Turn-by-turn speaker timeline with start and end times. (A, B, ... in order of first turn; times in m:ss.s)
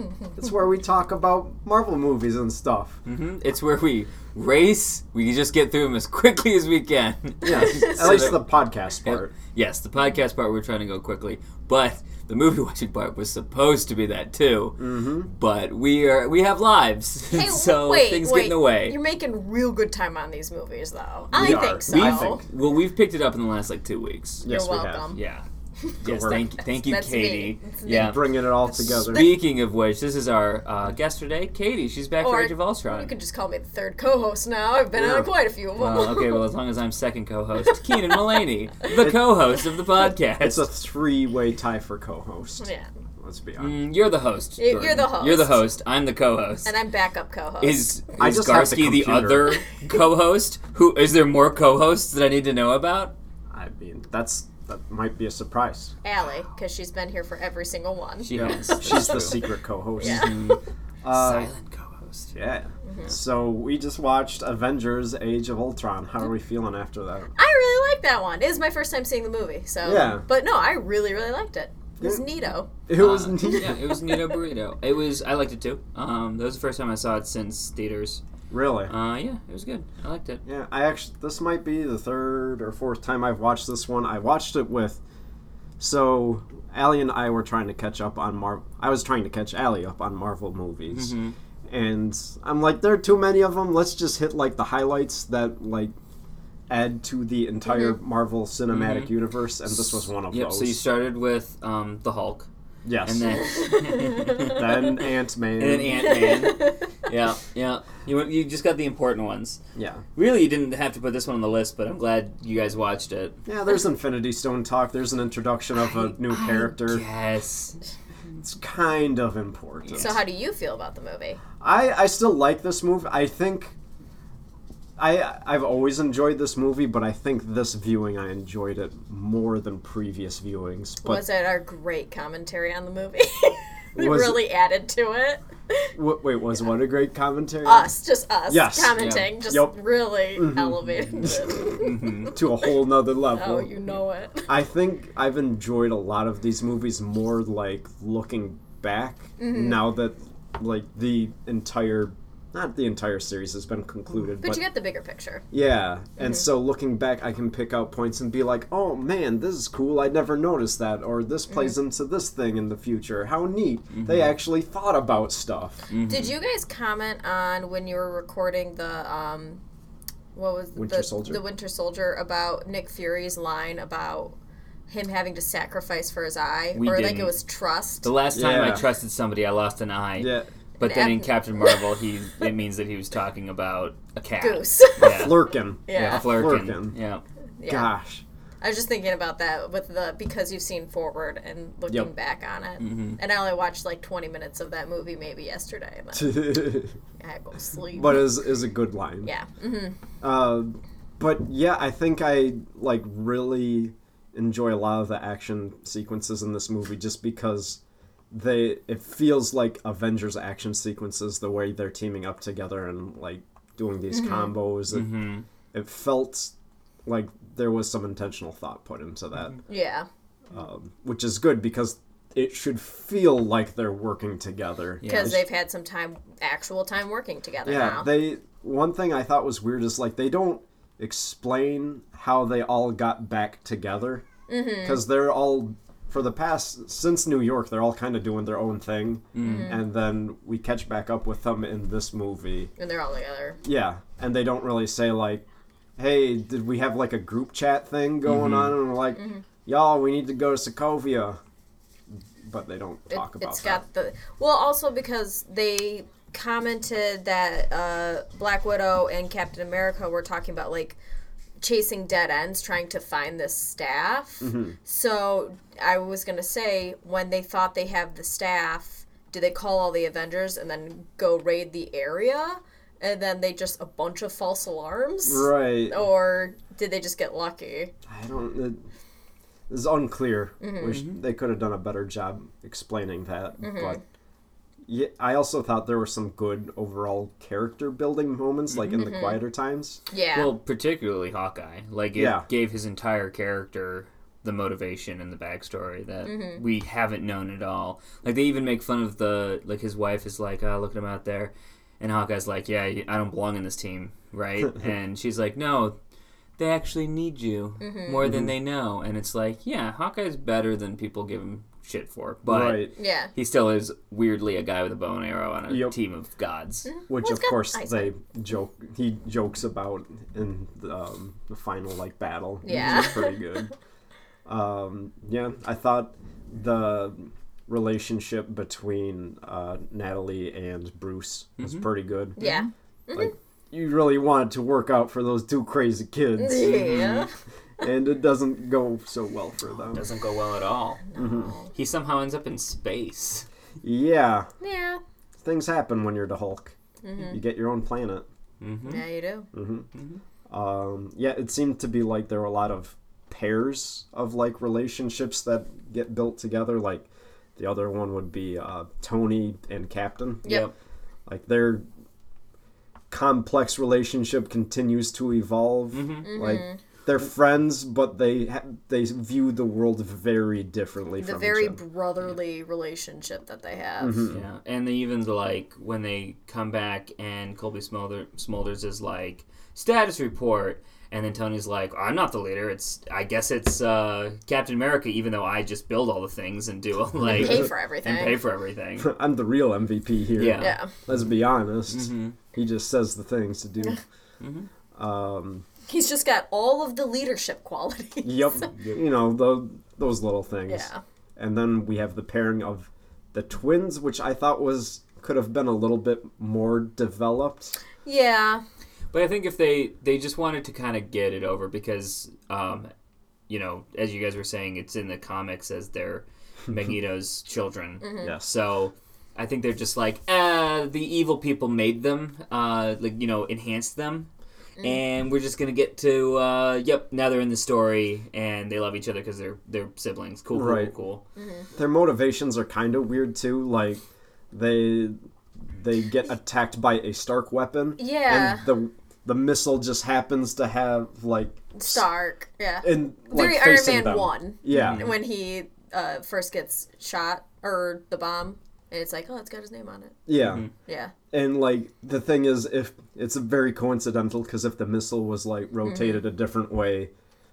0:00.4-0:03.0 A
0:03.0-0:08.5 B
0:07.4-0:09.3 A
0:09.0-0:19.0 B
0:14.8-0:15.3 A
0:17.3-0:22.4 C
0:21.3-0:22.4 A
0:21.3-0:24.4 B
0:24.4-0:25.1 A
0:24.4-0:25.2 C
0:25.1-0:25.4 B
0:25.8-0:29.3 C
0:26.0-0:28.3 B
0:26.0-0:26.4 A
0:27.8-0:29.4 A
0:28.8-0:33.1 B
0:32.2-0:36.5 C
0:34.9-0:35.3 A
0:35.8-0:40.6 B
0:37.6-0:38.2 C
0:40.4-0:42.7 A
0:42.6-0:42.9 C
0:43.2-0:43.8 A
0:43.6-0:46.7 B
0:44.6-0:45.6 C
0:44.7-0:45.1 A
0:46.6-0:47.9 C
0:47.6-0:53.1 B
0:48.2-0:49.6 A
0:53.5-0:55.9 A
0:56.0-0:59.3 C
0:58.2-0:59.4 B
0:58.3-1:00.3 A
1:00.0-1:02.4 B
1:00.0-1:00.6 C
1:01.0-1:01.5 A
1:02.3-1:07.3 A
1:02.8-1:03.1 C
1:07.4-1:12.7 C
1:09.8-1:10.2 A
1:12.9-1:13.9 A
1:12.9-1:18.2 B
1:13.4-1:14.2 C
1:18.5-1:18.9 A
1:18.9-1:20.4 B
1:20.4-1:25.0 A
1:25.8-1:31.1 A
1:30.9-1:31.3 B
1:31.7-1:35.9 A
1:36.7-1:40.8 A
1:37.7-1:37.9 C
1:38.7-1:39.1 B
1:39.7-1:42.5 B
1:42.8-1:43.4 A
1:43.0-1:45.1 B
1:43.6-1:44.3 C
1:44.4-1:46.2 A
1:45.6-1:49.6 B
1:46.0-1:46.8 C
1:49.8-1:50.0 A
1:50.2-1:53.4 B
1:53.4-1:57.0 A
1:56.2-1:57.8 B
1:58.4-2:00.2 A
1:59.9-2:00.2 B
2:00.0-2:01.4 C
2:01.6-2:03.7 A
2:05.0-2:11.2 A
2:11.0-2:15.9 C
2:14.0-2:14.4 A
2:15.9-2:17.9 A
2:17.6-2:22.3 C
2:18.5-2:21.4 A
2:18.9-2:19.3 B
2:21.7-2:22.3 B
2:22.3-2:23.7 A
2:23.3-2:24.6 C
2:24.5-2:34.6 A
2:29.4-2:29.8 C
2:34.4-2:35.4 C
2:35.5-2:45.8 A
2:43.9-2:44.3 B
2:45.9-2:46.3 B
2:46.1-2:49.6 C
2:50.3-2:54.4 C
2:50.7-2:51.4 A
2:54.9-2:58.1 C
2:56.7-2:57.4 B
2:58.0-3:05.4 B
2:58.3-2:58.8 A
3:00.2-3:00.5 A
3:00.8-3:01.9 C
3:04.4-3:06.3 C
3:05.0-3:07.0 A
3:05.9-3:07.2 B
3:07.6-3:07.9 C
3:07.6-3:08.2 A
3:08.6-3:16.5 C
3:12.8-3:13.2 B
3:16.1-3:17.0 A
3:17.2-3:18.4 C
3:17.9-3:19.3 A
3:19.2-3:20.0 C
3:20.2-3:27.8 A
3:28.3-3:35.2 A
3:34.1-3:34.5 C
3:34.9-3:35.4 B
3:35.7-3:36.5 A
3:37.0-3:39.6 A
3:39.7-3:40.1 C
3:40.5-3:45.4 A
3:45.0-3:45.4 B
3:45.0-3:48.1 C
3:47.6-3:54.2 A
3:54.5-3:55.0 C
3:54.8-4:02.7 A
3:59.3-3:59.8 B
3:59.4-3:59.8 C
4:02.8-4:03.6 C
4:03.6-4:05.4 A
4:06.0-4:11.4 A
4:08.2-4:08.8 B
4:09.2-4:09.4 C
4:12.1-4:13.8 A
4:13.1-4:21.0 C
4:21.6-4:37.9 C
4:24.4-4:24.7 A
4:35.2-4:36.1 A
4:38.1-4:38.8 A
4:39.7-4:44.0 A
4:40.6-4:41.0 C
4:40.9-4:41.2 B
4:43.6-4:44.0 C
4:44.9-4:50.0 A
4:48.7-4:49.0 B
4:48.9-4:49.4 C
4:50.1-4:50.5 C
4:50.3-5:06.0 B
4:52.1-4:52.4 A
4:56.2-4:56.6 C
5:06.6-5:16.9 B
5:07.8-5:08.2 C
5:08.2-5:08.5 A
5:12.5-5:12.9 A
5:13.0-5:13.3 C
5:15.7-5:16.0 A
5:16.8-5:18.1 C
5:17.1-5:23.7 A
5:22.6-5:23.6 C
5:22.7-5:23.0 B
5:24.4-5:32.4 A
5:31.6-5:32.7 B
5:32.4-5:33.3 C
5:33.1-5:37.1 A
5:36.4-5:37.3 C
5:36.6-5:37.3 B
5:37.8-5:40.0 A
5:39.9-5:41.1 B
5:41.1-5:41.7 C
5:41.2-5:41.5 A
5:41.6-5:43.4 B
5:43.8-5:44.5 A
5:44.6-5:45.0 C
5:45.4-5:46.7 A
5:47.0-5:47.4 C
5:47.3-5:48.2 A
5:48.6-5:49.0 B
5:48.8-5:49.5 C
5:49.5-5:49.8 A
5:49.9-5:50.2 B
5:50.5-6:00.6 A
6:00.4-6:00.7 B
6:01.3-6:01.8 A
6:03.1-6:11.8 A
6:05.9-6:06.3 B
6:06.2-6:06.8 C
6:11.2-6:14.3 C
6:14.0-6:14.4 A
6:14.3-6:29.1 B
6:27.2-6:28.4 C
6:29.0-6:34.0 A
6:30.4-6:31.2 B
6:30.6-6:30.9 C
6:31.9-6:32.4 B
6:34.4-6:34.7 B
6:35.0-6:35.6 A
6:35.9-6:38.7 C
6:38.2-6:47.7 A
6:38.7-6:39.0 B
6:40.7-6:41.0 C
6:48.0-6:48.6 C
6:49.1-6:52.9 B
6:53.5-7:04.3 B
6:58.0-6:58.3 C
6:58.2-6:58.5 A
7:04.8-7:11.2 B
7:10.5-7:10.9 A
7:11.4-7:11.7 C
7:11.7-7:22.1 A
7:18.0-7:18.6 C
7:21.7-7:30.2 C
7:22.8-7:25.1 A
7:24.7-7:25.2 B
7:30.3-7:30.6 A
7:30.4-7:30.7 B
7:30.8-7:31.1 C
7:31.3-7:37.1 A
7:35.8-7:36.2 C